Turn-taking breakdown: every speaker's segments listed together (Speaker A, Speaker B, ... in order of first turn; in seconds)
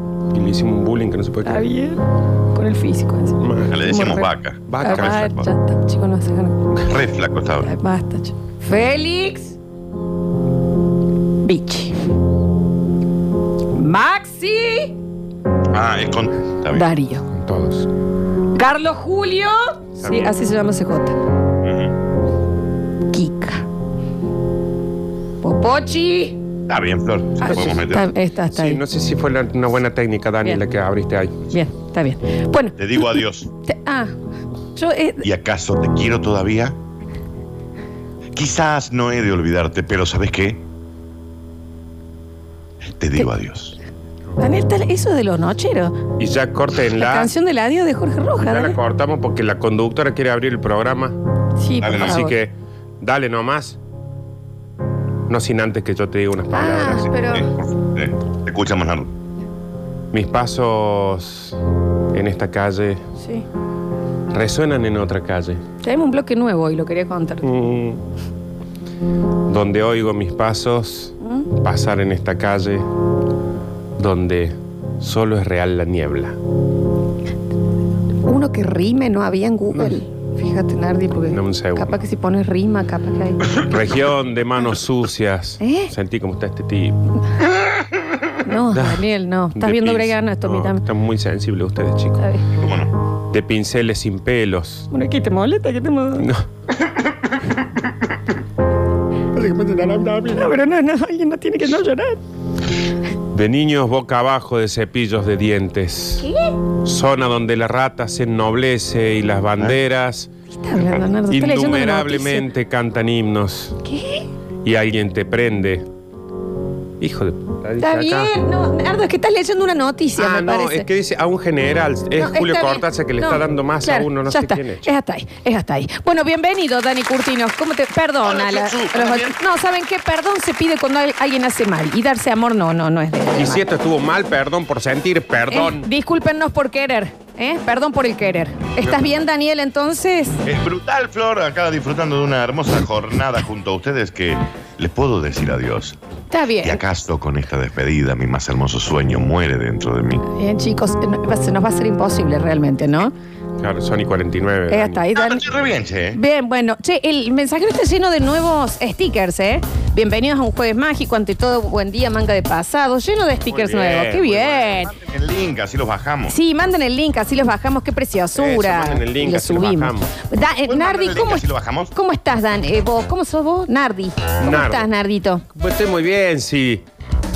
Speaker A: 0.3-1.7, 3.4-3.8, 4.7-5.3, 17.3-17.9, 20.0-20.4, 27.4-27.8, 28.5-31.4, 46.2-47.3, 48.4-51.1, 52.0-53.8, 55.3-57.1, 60.1-61.6, 62.1-63.0, 64.3-65.6, 67.4-68.0, 69.5-72.9, 74.0-76.3, 81.3-82.0, 83.5-87.0, 88.7-92.2, 93.3-94.9, 96.2-96.4, 99.3-100.5, 103.3-106.3, 106.8-110.3, 111.2-113.8, 114.6-115.8, 117.0-118.3, 120.2-124.9, 133.3-135.9, 153.6-155.0, 163.5-164.5, 168.3-170.1, 174.4-174.9, 175.5-176.8
Speaker B: 1.4-6.6, 7.6-9.6, 11.4-11.9, 13.7-14.9, 16.7-17.2, 18.5-21.2, 23.1-23.6, 25.4-26.4, 27.4-28.8, 31.5-34.1, 34.7-35.2, 44.4-46.0, 47.0-48.8, 51.6-52.4, 56.5-57.5, 63.2-63.5, 65.8-67.5, 78.2-83.6, 85.6-85.9, 88.4-90.8, 92.2-92.5, 94.9-96.3, 100.3-102.2, 106.2-106.5, 110.6-112.5, 113.8-114.3, 117.8-120.9, 122.2-133.6, 135.5-140.4, 146.3-146.8, 150.3-153.1, 154.7-155.4, 156.1-164.9, 166.3-175.4
Speaker C: 3.7-5.5, 6.8-7.7, 15.7-16.9, 21.6-21.9, 26.7-28.1, 32.8-33.5, 35.2-36.8, 38.3-40.6, 42.8-43.8, 51.8-52.2, 57.3-59.1, 92.5-92.9, 128.2-129.3, 140.4-146.0, 146.6-150.2, 155.1-156.2, 164.4-166.3, 170.7-171.9